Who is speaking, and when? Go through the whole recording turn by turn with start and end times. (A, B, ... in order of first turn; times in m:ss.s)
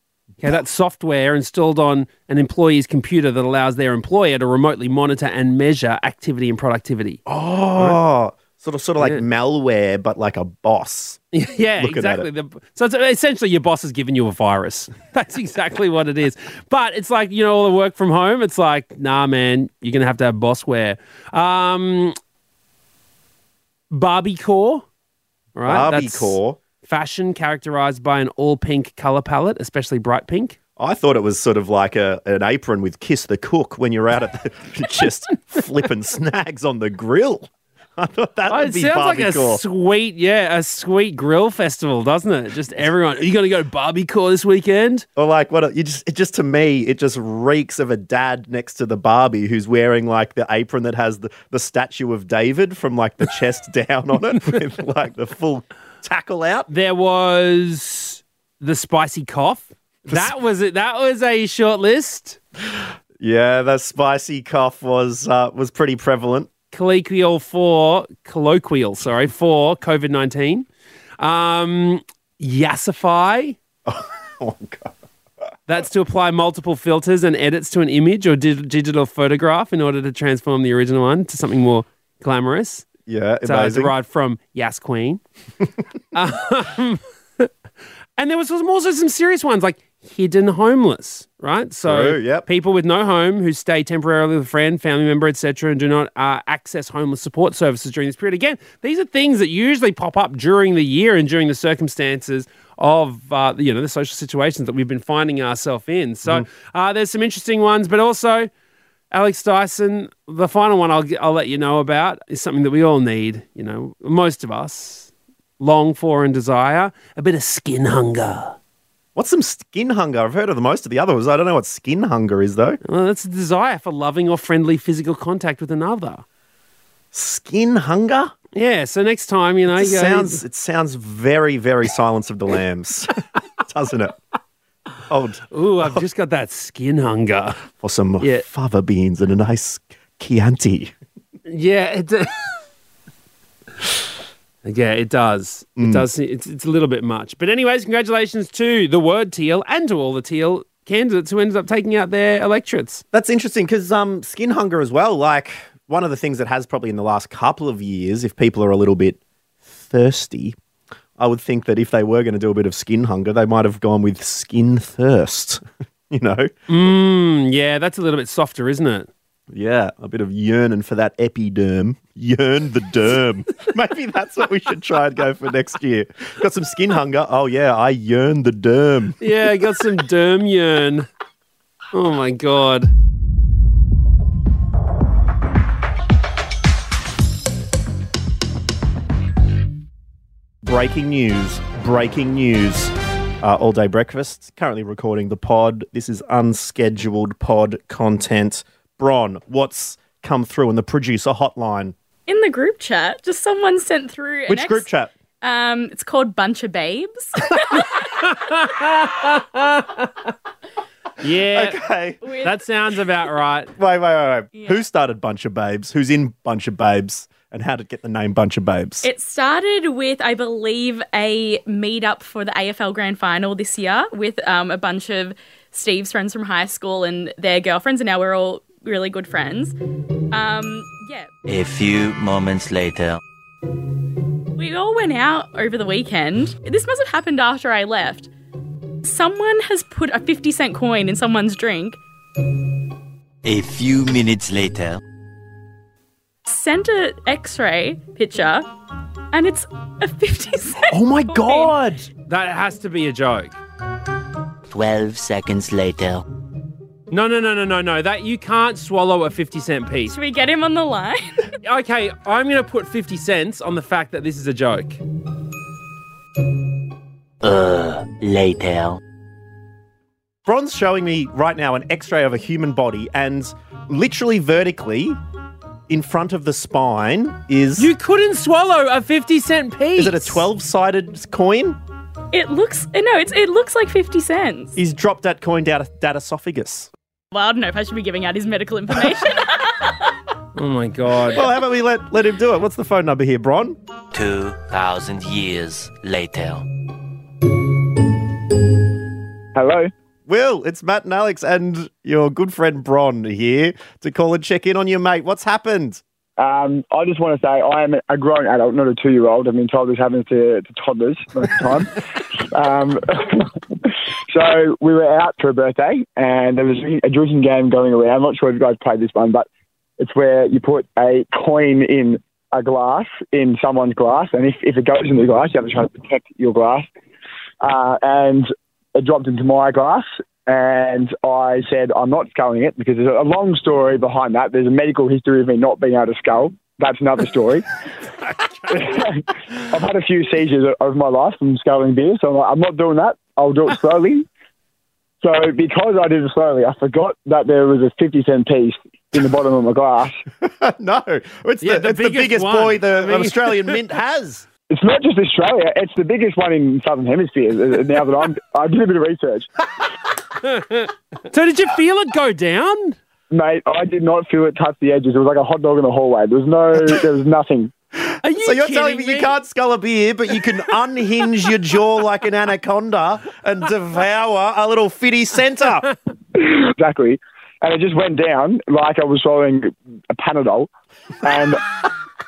0:00.4-0:07.2 A
0:07.2-0:11.2 B
0:11.3-0:22.1 A
0:11.8-0:12.3 B
0:23.9-0:24.8 A
0:25.5-0:30.6 A
0:25.7-0:26.6 B
0:30.8-0:39.6 B
0:38.5-0:45.0 A
0:45.2-0:56.7 B
0:56.7-1:02.4 A
1:03.2-1:06.5 B
1:06.7-1:10.7 A
1:11.2-1:13.6 A
1:13.9-1:14.9 B
1:15.7-1:22.9 A
1:23.1-1:23.9 B
1:23.4-1:25.2 A
1:26.1-1:27.5 A
1:28.2-1:48.5 A
1:31.8-1:32.5 B
1:49.1-1:55.1 A
1:55.6-1:58.6 A
1:59.1-2:02.8 B
2:02.9-2:06.2 A
2:07.1-2:08.3 B
2:08.5-2:10.4 A
2:09.7-2:14.2 B
2:15.1-2:16.0 B
2:15.5-2:17.6 A
2:17.8-2:20.9 B
2:21.5-2:22.3 A
2:24.6-2:33.0 A
2:25.8-2:26.0 B
2:33.1-2:39.2 B
2:39.8-2:40.6 B
2:41.2-2:46.5 B
2:46.7-2:49.1 A
2:49.5-2:59.2 B
2:59.2-3:01.1 A
3:01.9-3:02.9 A
3:10.6-3:21.9 B
3:22.3-3:24.8 C
3:24.5-3:25.1 B
3:25.4-3:27.8 C
3:27.5-3:30.3 A
3:31.2-3:31.8 A
3:31.5-3:32.2 B
3:32.2-3:32.5 C
3:32.4-3:33.7 A
3:33.8-3:39.0 B
3:34.5-3:34.8 C
3:39.0-3:49.7 C
3:50.3-3:51.3 C
3:51.4-3:53.2 D
3:54.5-3:58.3 C
3:59.0-4:02.0 C
4:03.4-4:05.0 D
4:06.4-4:08.7 C
4:09.3-4:11.7 C
4:10.9-4:12.1 B
4:12.2-4:13.6 A
4:14.7-4:16.2 D
4:17.1-4:20.1 A
4:20.1-4:21.4 C
4:21.6-4:25.0 A
4:27.4-4:29.0 D
4:30.4-4:35.2 B
4:35.9-4:37.9 B
4:37.8-4:40.4 A
4:40.0-4:41.8 B
4:42.3-4:44.7 C
4:44.8-4:46.9 B
4:47.3-4:50.1 C
4:50.5-4:51.4 A
4:51.3-4:53.8 B
4:54.1-4:56.6 D
4:59.5-4:59.9 E
5:00.3-5:06.0 B
5:06.4-5:19.5 E
5:20.0-5:26.9 E
5:27.6-5:37.6 E
5:38.3-5:38.8 A
5:38.7-5:44.3 E
5:45.2-5:50.2 E
5:50.4-5:54.4 B
5:51.6-5:53.8 A
5:54.7-5:59.5 E
6:00.4-6:03.0 A
6:03.3-6:07.7 E
6:08.1-6:15.9 B
6:08.2-6:09.4 A
6:16.3-6:20.7 E
6:21.2-6:21.7 E